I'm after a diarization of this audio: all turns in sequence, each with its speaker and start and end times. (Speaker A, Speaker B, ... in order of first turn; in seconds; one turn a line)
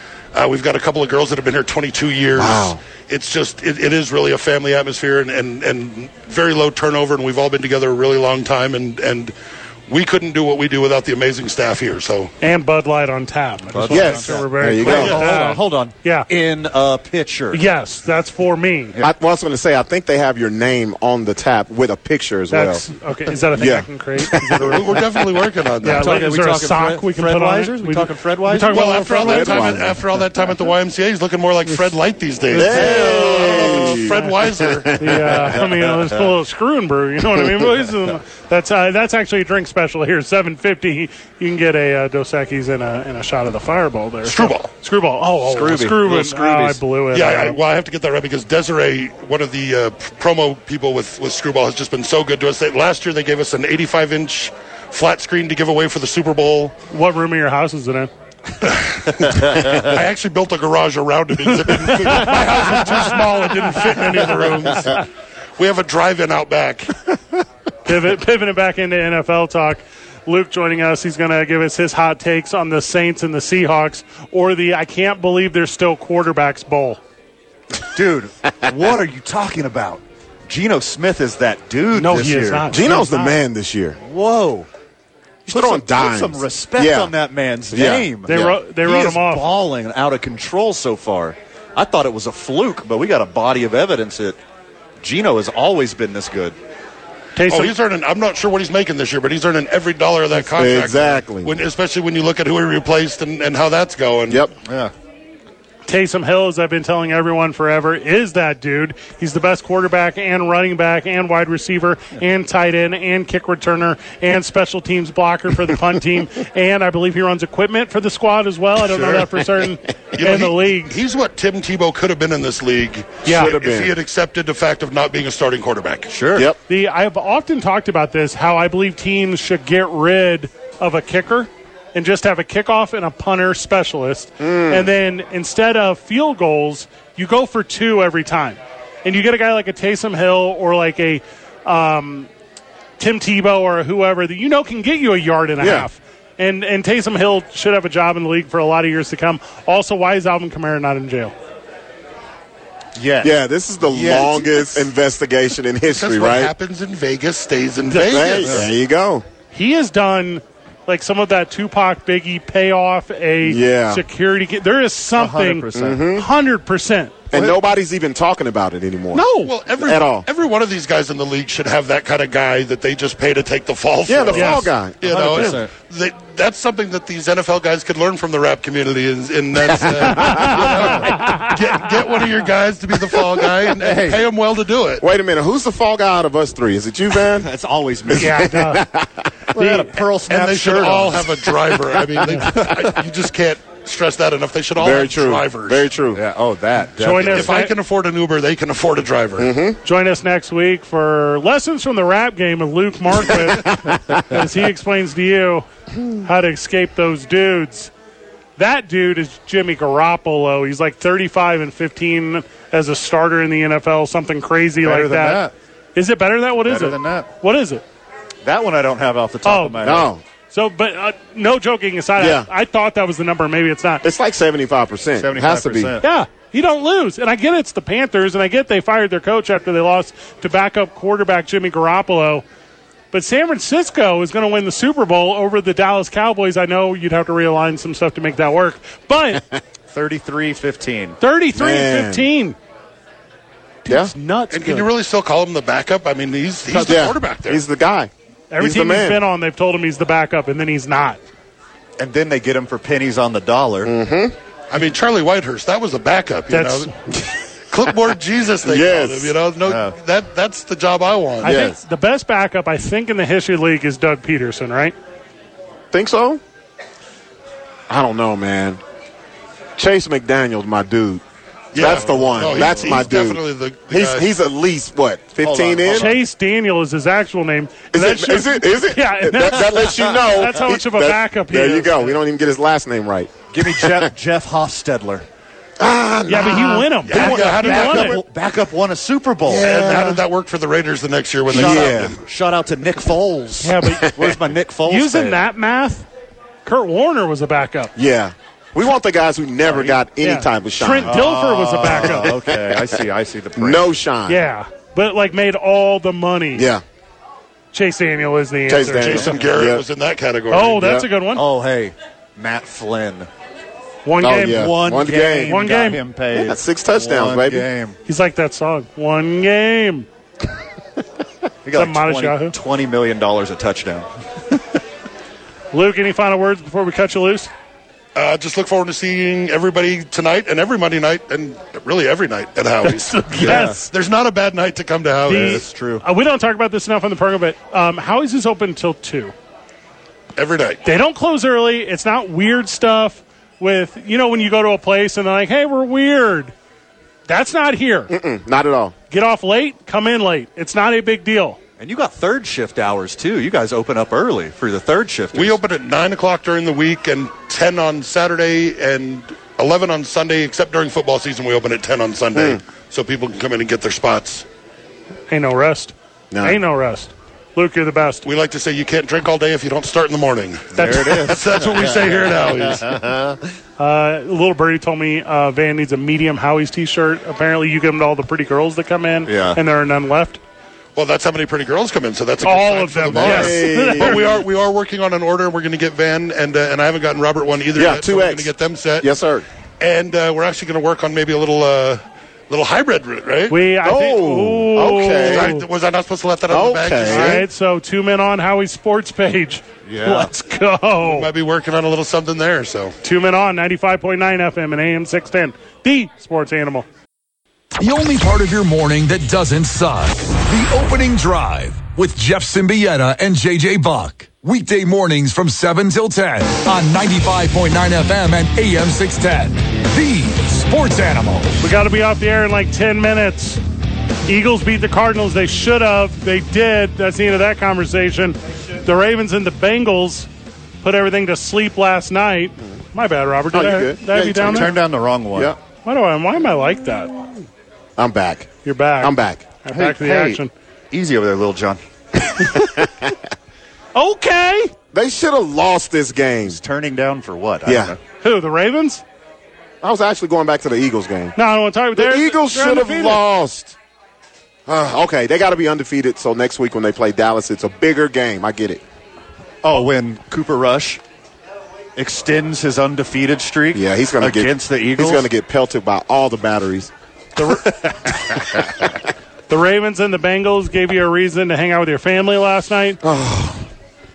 Speaker A: 0.3-9.3
Speaker B: 2.4-2.8
Speaker A: 9.9-12.3
Speaker C: 12.4-16.3
Speaker D: 13.7-17.6
Speaker B: 13.9-15.3
Speaker C: 17.5-19.0
Speaker B: 19.0-22.8
Speaker C: 22.5-24.8
Speaker B: 23.5-25.2
Speaker A: 24.6-26.3
Speaker C: 25.8-29.8
Speaker D: 25.8-29.1
Speaker A: 28.7-35.2
Speaker B: 29.1-30.0
Speaker C: 32.5-33.1
Speaker D: 32.5-33.9
Speaker B: 32.5-35.2
Speaker C: 35.0-47.6
Speaker D: 35.6-36.2
Speaker A: 44.2-44.7
Speaker D: 45.4-46.8
Speaker A: 47.1-56.8
Speaker C: 56.9-58.1
Speaker A: 58.6-65.0
Speaker C: 62.0-63.2
Speaker C: 63.7-65.0
Speaker A: 65.6-66.9
Speaker C: 67.9-77.0
Speaker D: 77.9-82.7
Speaker C: 81.9-83.4
Speaker B: 82.7-84.0
Speaker D: 84.0-84.7
Speaker B: 85.5-87.1
Speaker D: 85.5-94.4
Speaker B: 87.7-88.5
Speaker C: 88.3-89.5
Speaker D: 95.0-96.6
Speaker C: 97.4-97.8
Speaker A: 97.5-104.5
Speaker B: 100.5-101.5
Speaker D: 104.6-104.9
Speaker C: 105.9-121.0
Speaker A: 120.2-126.2
Speaker C: 123.2-123.5
Speaker B: 123.2-123.9
Speaker D: 126.1-126.5
Speaker C: 126.7-142.3
Speaker B: 134.4-134.9
Speaker C: 143.0-151.3
Speaker B: 145.6-145.9
Speaker D: 153.0-154.9
Speaker B: 153.2-156.5
Speaker A: 155.9-158.7
Speaker B: 158.1-159.2
Speaker D: 158.4-158.7
Speaker C: 159.5-167.2
Speaker B: 163.4-164.0
Speaker D: 165.2-166.1
Speaker B: 165.7-166.3
Speaker B: 167.3-170.3
Speaker D: 167.3-167.6
Speaker C: 169.1-169.5
Speaker A: 169.4-185.0
Speaker B: 174.1-175.7
Speaker C: 174.3-174.7
Speaker D: 175.0-175.7
Speaker B: 180.1-180.7
Speaker C: 181.0-181.5
Speaker D: 183.7-184.2
Speaker B: 185.0-187.5
Speaker D: 187.3-188.5
Speaker B: 188.1-189.3
Speaker C: 188.2-188.9
Speaker D: 189.5-191.6
Speaker C: 189.6-189.9
Speaker A: 190.3-195.9
Speaker D: 192.3-192.8
Speaker B: 194.8-196.2
Speaker D: 196.1-197.5
Speaker C: 197.0-197.7
Speaker A: 197.2-199.5
Speaker B: 199.4-199.8
Speaker C: 199.8-205.7
Speaker C: 206.2-207.9
Speaker C: 208.6-217.8
Speaker D: 214.8-215.5
Speaker D: 216.7-217.3
Speaker D: 218.4-220.1
Speaker C: 219.4-219.9
Speaker B: 219.8-220.2
Speaker C: 220.5-224.0
Speaker B: 222.2-222.5
Speaker B: 224.0-226.0
Speaker D: 225.2-226.1
Speaker C: 226.0-232.4
Speaker C: 233.1-239.4
Speaker D: 239.9-241.2
Speaker C: 241.2-242.6
Speaker B: 241.5-242.3
Speaker C: 243.8-244.9
Speaker A: 244.5-247.6
Speaker C: 246.7-247.0
Speaker B: 246.8-249.2
Speaker C: 248.5-251.2
Speaker D: 252.0-253.9
Speaker B: 253.9-254.3
Speaker A: 254.7-256.9
Speaker C: 256.5-256.9
Speaker A: 257.7-261.6
Speaker B: 258.6-259.4
Speaker D: 259.7-259.9
Speaker C: 261.4-264.9
Speaker B: 261.4-261.8
Speaker B: 265.9-266.4
Speaker B: 267.9-268.8
Speaker B: 269.8-271.2
Speaker A: 271.7-274.3
Speaker B: 271.7-276.1
Speaker D: 271.8-273.1
Speaker D: 275.4-276.2
Speaker C: 275.9-282.2
Speaker B: 277.9-284.1
Speaker D: 283.5-285.3
Speaker B: 285.8-288.2
Speaker C: 286.3-288.2
Speaker A: 287.0-288.1
Speaker D: 287.1-290.0
Speaker B: 289.5-290.2
Speaker A: 289.6-292.2
Speaker B: 291.5-292.2
Speaker D: 291.5-295.4
Speaker C: 293.6-294.1
Speaker B: 294.1-294.4
Speaker C: 294.9-296.1
Speaker C: 296.6-297.9
Speaker B: 298.0-301.2
Speaker D: 299.6-300.0
Speaker C: 300.2-302.3
Speaker D: 301.0-303.9
Speaker B: 301.9-302.8
Speaker B: 303.6-304.4
Speaker C: 304.3-306.7
Speaker B: 306.6-306.8
Speaker C: 307.7-309.3
Speaker B: 308.7-309.8
Speaker A: 308.9-310.9
Speaker C: 310.5-311.4
Speaker B: 310.8-311.1
Speaker D: 311.3-313.3
Speaker C: 314.1-314.7
Speaker B: 314.2-315.6
Speaker D: 314.4-318.0
Speaker C: 315.5-316.0
Speaker B: 316.3-317.7
Speaker C: 318.1-320.1
Speaker D: 321.6-324.1
Speaker C: 321.7-322.6
Speaker C: 325.7-327.5
Speaker A: 328.1-335.6
Speaker C: 332.9-333.9
Speaker D: 333.3-333.9
Speaker D: 335.3-336.0
Speaker C: 335.3-339.3
Speaker A: 340.4-340.8
Speaker C: 340.9-346.5
Speaker C: 347.3-348.1
Speaker B: 348.1-348.9
Speaker C: 349.1-351.6
Speaker D: 351.8-355.6
Speaker A: 355.3-364.4
Speaker B: 362.4-362.6
Speaker C: 365.3-368.2
Speaker B: 366.3-366.6
Speaker A: 368.2-373.0
Speaker D: 370.7-373.4
Speaker C: 370.8-371.3
Speaker C: 373.8-380.4
Speaker D: 379.3-379.6
Speaker A: 381.0-389.1
Speaker C: 382.4-384.2
Speaker B: 383.1-384.3
Speaker B: 387.8-389.5
Speaker A: 389.8-393.6
Speaker C: 393.5-395.6
Speaker B: 393.8-395.5
Speaker A: 395.2-397.4
Speaker B: 396.5-397.5
Speaker C: 397.1-401.3
Speaker D: 399.9-400.3
Speaker A: 401.0-402.9
Speaker C: 403.0-406.9
Speaker E: 407.8-421.6
Speaker C: 421.6-423.6
Speaker C: 424.3-430.3
Speaker C: 430.8-434.8
Speaker B: 433.5-435.6
Speaker D: 434.2-435.5
Speaker C: 435.9-437.2
Speaker B: 438.0-440.4
Speaker C: 438.6-440.5
Speaker D: 439.7-440.4
Speaker D: 440.9-441.8
Speaker B: 442.6-443.1
Speaker C: 443.9-444.7
Speaker B: 444.9-446.6
Speaker D: 446.4-448.0
Speaker B: 447.7-448.0
Speaker C: 448.2-449.0
Speaker B: 449.8-451.4
Speaker C: 451.4-453.2
Speaker B: 451.9-453.8
Speaker B: 454.7-458.8
Speaker D: 459.6-461.0
Speaker D: 462.0-465.3
Speaker B: 463.7-466.9
Speaker C: 467.4-468.1
Speaker C: 469.5-473.0
Speaker B: 473.0-473.6